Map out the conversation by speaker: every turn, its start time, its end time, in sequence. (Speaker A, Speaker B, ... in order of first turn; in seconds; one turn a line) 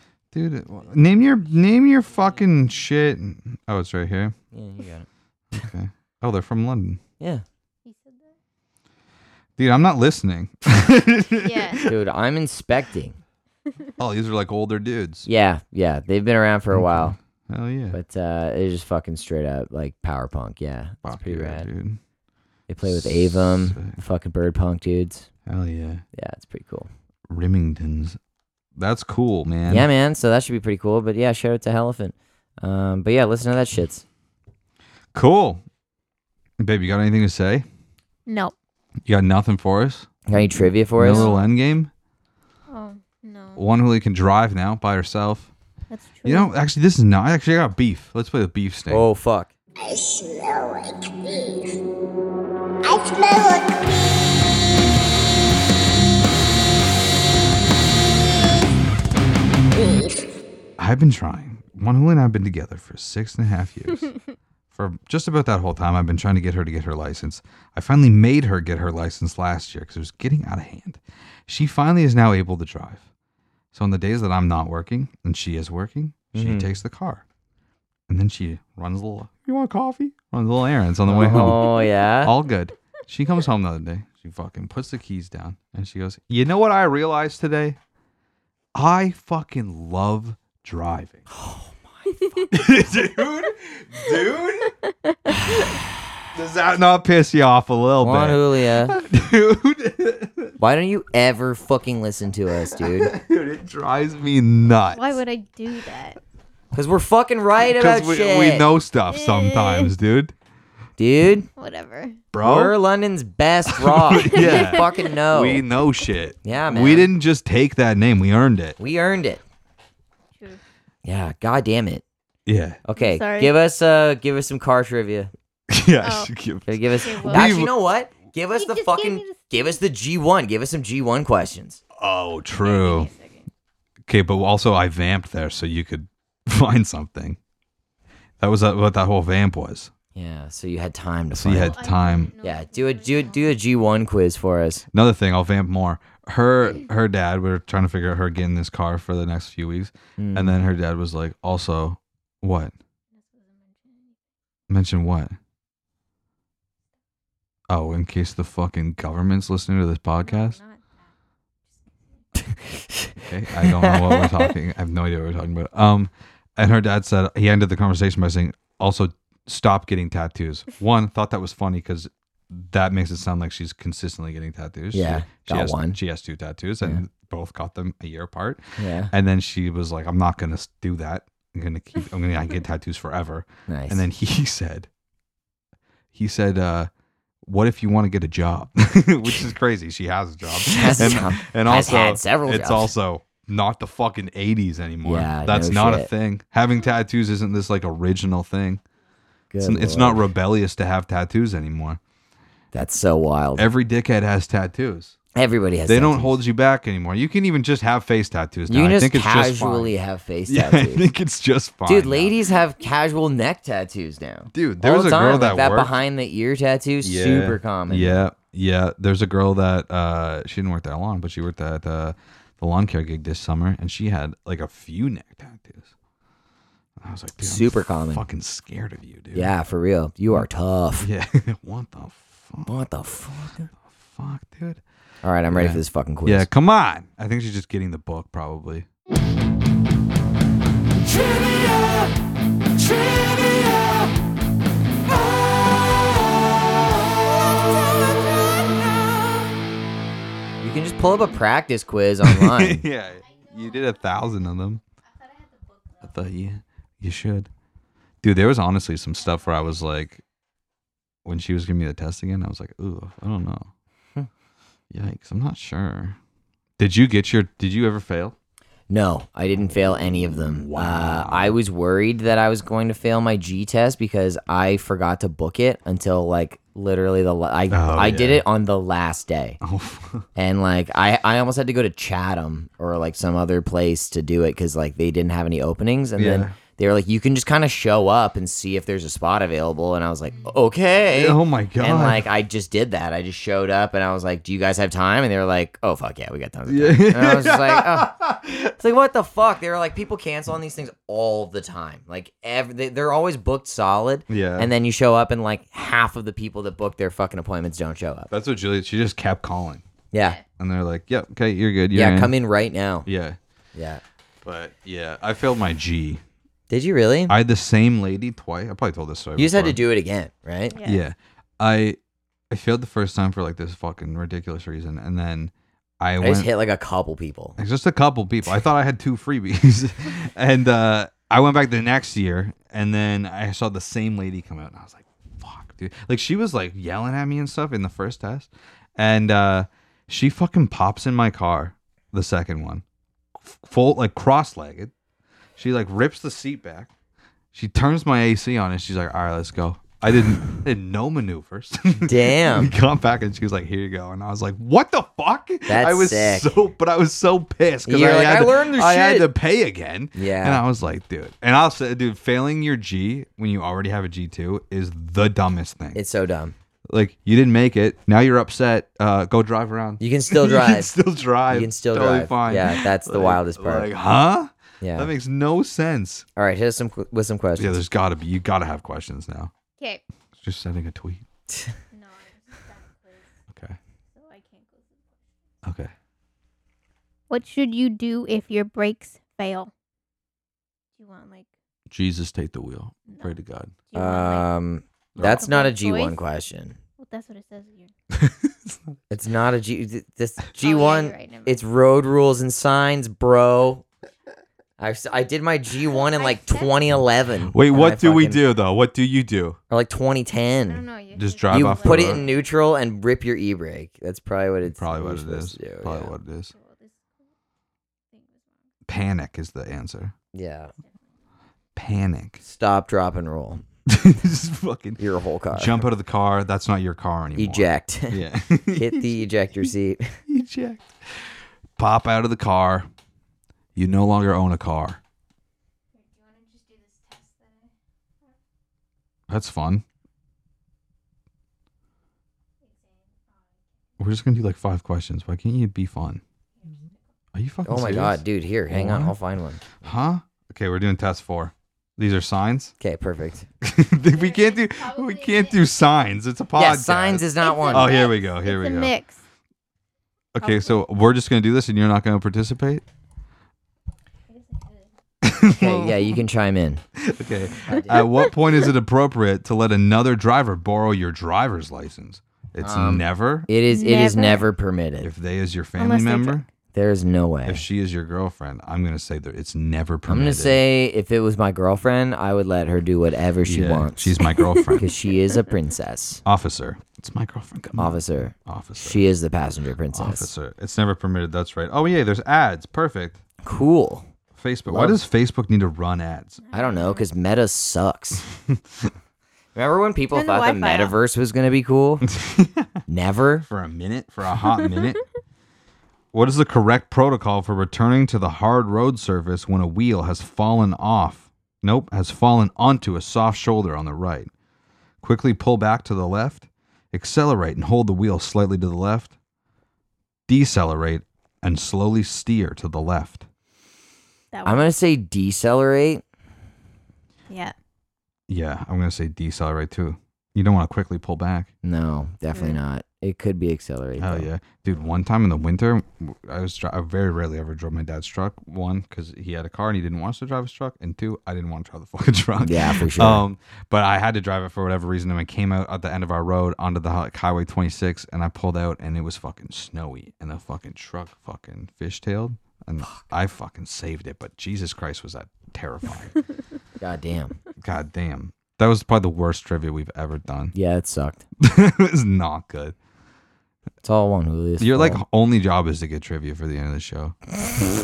Speaker A: 0.3-4.4
Speaker B: 4.5-5.1
Speaker A: 5.5-7.0
Speaker B: 7.2-7.5
Speaker C: 7.8-8.4
Speaker A: 9.6-11.9
Speaker C: 11.4-11.8
Speaker B: 11.9-13.2
Speaker A: 14.0-15.3
Speaker B: 15.3-17.2
Speaker A: 16.7-18.0
Speaker B: 17.9-21.7
Speaker A: 21.0-22.0
Speaker B: 22.7-25.3
Speaker A: 22.8-24.0
Speaker A: 25.5-26.0
Speaker B: 26.1-26.9
Speaker A: 27.3-28.2
Speaker A: 28.8-29.9
Speaker B: 29.7-34.0
Speaker A: 35.1-35.6
Speaker A: 36.6-37.7
Speaker C: 38.3-38.5
Speaker A: 39.1-40.1
Speaker B: 40.3-41.3
Speaker A: 41.0-41.9
Speaker C: 41.1-41.5
Speaker C: 42.7-43.6
Speaker A: 43.6-45.5
Speaker C: 45.9-46.5
Speaker A: 46.2-49.0
Speaker B: 48.9-49.5
Speaker D: 49.8-51.6
Speaker D: 52.9-54.3
Speaker D: 59.7-60.2
Speaker A: 60.8-64.2
Speaker A: 64.7-73.0
Speaker A: 73.7-77.2
Speaker B: 76.3-76.7
Speaker A: 78.1-87.8
Speaker B: 81.1-82.3
Speaker A: 88.8-91.2
Speaker B: 91.3-92.6
Speaker A: 92.5-94.8
Speaker B: 95.3-95.7
Speaker A: 95.4-95.8
Speaker A: 96.3-100.6
Speaker B: 98.0-99.0
Speaker B: 100.6-103.1
Speaker A: 102.7-105.2
Speaker C: 105.0-106.2
Speaker B: 106.7-108.7
Speaker A: 107.6-110.3
Speaker C: 109.1-109.9
Speaker B: 111.0-111.5
Speaker C: 111.6-112.2
Speaker A: 112.3-112.8
Speaker B: 112.4-115.7
Speaker A: 113.7-118.8
Speaker C: 114.2-115.1
Speaker B: 116.4-117.1
Speaker B: 118.8-119.4
Speaker B: 121.0-122.0
Speaker A: 122.5-122.8
Speaker B: 122.8-125.3
Speaker C: 123.0-123.5
Speaker A: 125.7-127.7
Speaker C: 126.0-126.3
Speaker B: 126.7-131.8
Speaker C: 127.0-127.6
Speaker C: 128.5-129.7
Speaker A: 132.0-133.1
Speaker C: 132.6-133.5
Speaker A: 134.1-137.4
Speaker A: 138.4-139.9
Speaker B: 140.2-141.8
Speaker A: 141.3-142.3
Speaker C: 141.5-143.6
Speaker B: 142.4-144.9
Speaker A: 144.9-152.7
Speaker B: 150.2-150.6
Speaker C: 153.1-154.2
Speaker A: 154.7-155.4
Speaker A: 157.7-160.6
Speaker C: 160.2-161.1
Speaker C: 161.7-162.2
Speaker B: 162.6-164.5
Speaker A: 163.2-184.9
Speaker B: 174.9-176.0
Speaker B: 178.8-179.1
Speaker B: 183.7-184.0
Speaker A: 186.1-186.9
Speaker A: 187.4-198.8
Speaker B: 190.5-192.9
Speaker B: 195.0-196.1
Speaker B: 199.5-200.2
Speaker A: 199.6-202.0
Speaker B: 202.7-203.7
Speaker A: 203.6-205.2
Speaker B: 205.3-206.3
Speaker A: 205.9-209.9
Speaker B: 208.7-211.1
Speaker A: 210.5-212.3
Speaker B: 211.9-218.3
Speaker A: 214.5-216.0
Speaker A: 217.0-225.9
Speaker A: 227.0-229.5
Speaker B: 227.4-228.2
Speaker B: 229.3-231.1
Speaker A: 231.0-232.9
Speaker B: 232.7-233.7
Speaker A: 233.9-234.8
Speaker B: 235.2-236.5
Speaker A: 235.5-238.9
Speaker A: 241.5-242.1
Speaker A: 243.2-243.6
Speaker B: 250.6-252.8
Speaker A: 252.2-254.8
Speaker C: 253.1-256.3
Speaker A: 256.0-257.5
Speaker A: 258.2-260.2
Speaker C: 259.3-259.7
Speaker A: 261.2-263.7
Speaker A: 264.9-266.2
Speaker A: 266.8-268.4
Speaker B: 268.9-279.6
Speaker A: 270.3-271.6
Speaker A: 277.7-278.4
Speaker A: 279.6-280.3
Speaker B: 280.4-308.3
Speaker A: 286.2-286.6
Speaker A: 291.1-292.2
Speaker A: 296.7-298.7
Speaker A: 304.3-304.7
Speaker A: 308.3-309.9
Speaker B: 310.1-310.4
Speaker A: 310.6-312.3
Speaker B: 311.9-313.1
Speaker A: 313.1-313.4
Speaker B: 313.8-314.0
Speaker A: 314.4-316.2
Speaker B: 316.7-317.4
Speaker A: 317.3-319.8
Speaker B: 319.4-320.8
Speaker C: 320.7-321.0
Speaker A: 320.8-322.0
Speaker A: 322.5-326.5
Speaker B: 326.2-327.6
Speaker A: 327.6-342.8
Speaker A: 343.5-344.9
Speaker A: 345.6-346.9
Speaker A: 347.5-366.0
Speaker B: 352.0-352.7
Speaker B: 355.7-356.6
Speaker B: 357.9-359.3
Speaker B: 360.1-360.6
Speaker B: 365.9-366.6
Speaker A: 366.9-376.3
Speaker B: 370.0-370.9
Speaker B: 371.5-373.9
Speaker B: 374.8-375.1
Speaker B: 376.4-377.9
Speaker A: 377.6-379.5
Speaker A: 380.4-381.3
Speaker C: 381.9-383.3
Speaker A: 383.5-383.8
Speaker C: 384.1-385.3
Speaker A: 385.6-385.9
Speaker C: 387.3-389.7
Speaker C: 391.0-391.5
Speaker A: 391.9-393.7
Speaker C: 393.9-394.5
Speaker B: 393.9-396.8
Speaker A: 395.2-395.4
Speaker C: 395.2-396.2
Speaker C: 397.0-397.9
Speaker A: 398.1-399.0
Speaker B: 399.1-403.9
Speaker C: 400.6-401.6
Speaker B: 404.8-408.4
Speaker C: 406.2-406.8
Speaker A: 407.5-409.6
Speaker B: 409.7-410.8
Speaker C: 410.6-412.4
Speaker A: 411.2-412.2
Speaker B: 411.5-416.1
Speaker A: 414.7-416.5
Speaker C: 416.5-417.3
Speaker C: 418.1-418.7
Speaker A: 418.9-420.1
Speaker B: 420.3-420.7
Speaker A: 421.8-422.4
Speaker B: 422.4-423.6
Speaker A: 423.9-429.2
Speaker B: 425.0-425.9
Speaker B: 427.4-428.2
Speaker B: 428.8-430.2
Speaker A: 430.3-432.9
Speaker A: 433.8-435.0
Speaker C: 435.9-437.7
Speaker A: 439.3-439.9
Speaker C: 442.6-443.6
Speaker A: 444.0-446.2
Speaker C: 446.6-447.0
Speaker A: 447.3-449.1
Speaker B: 447.7-449.6
Speaker A: 449.8-452.7
Speaker B: 452.8-453.5
Speaker A: 453.6-458.9
Speaker C: 454.0-455.7
Speaker B: 456.6-457.9
Speaker C: 457.4-459.2
Speaker A: 460.4-462.8
Speaker C: 460.4-460.8
Speaker C: 464.3-464.9
Speaker A: 465.2-466.1
Speaker B: 465.5-466.8
Speaker A: 467.0-473.5
Speaker B: 467.7-468.1
Speaker C: 467.7-468.2
Speaker B: 472.6-475.1
Speaker C: 473.7-474.5
Speaker A: 475.0-476.5
Speaker C: 475.8-476.4
Speaker B: 476.7-477.6
Speaker A: 477.5-480.6
Speaker B: 480.1-486.2
Speaker A: 483.5-484.9
Speaker A: 486.2-489.1
Speaker B: 487.8-490.3
Speaker A: 489.9-493.2
Speaker B: 493.4-494.1
Speaker A: 494.4-496.4
Speaker B: 494.7-495.0
Speaker C: 496.4-497.1
Speaker B: 496.5-498.3
Speaker A: 498.5-498.9
Speaker B: 499.6-502.1
Speaker C: 500.1-501.0
Speaker A: 502.1-502.8
Speaker B: 502.9-503.4
Speaker A: 503.4-505.0
Speaker A: 506.1-514.3
Speaker A: 515.0-519.1
Speaker A: 520.3-523.3
Speaker C: 524.3-524.7
Speaker B: 524.5-526.0
Speaker A: 528.3-531.5
Speaker B: 531.6-534.3
Speaker C: 532.3-532.6
Speaker A: 534.0-556.2
Speaker B: 542.4-543.2
Speaker B: 556.8-557.4
Speaker A: 557.6-560.5
Speaker B: 560.5-561.2
Speaker A: 561.4-562.8
Speaker B: 563.8-565.0
Speaker A: 564.6-567.2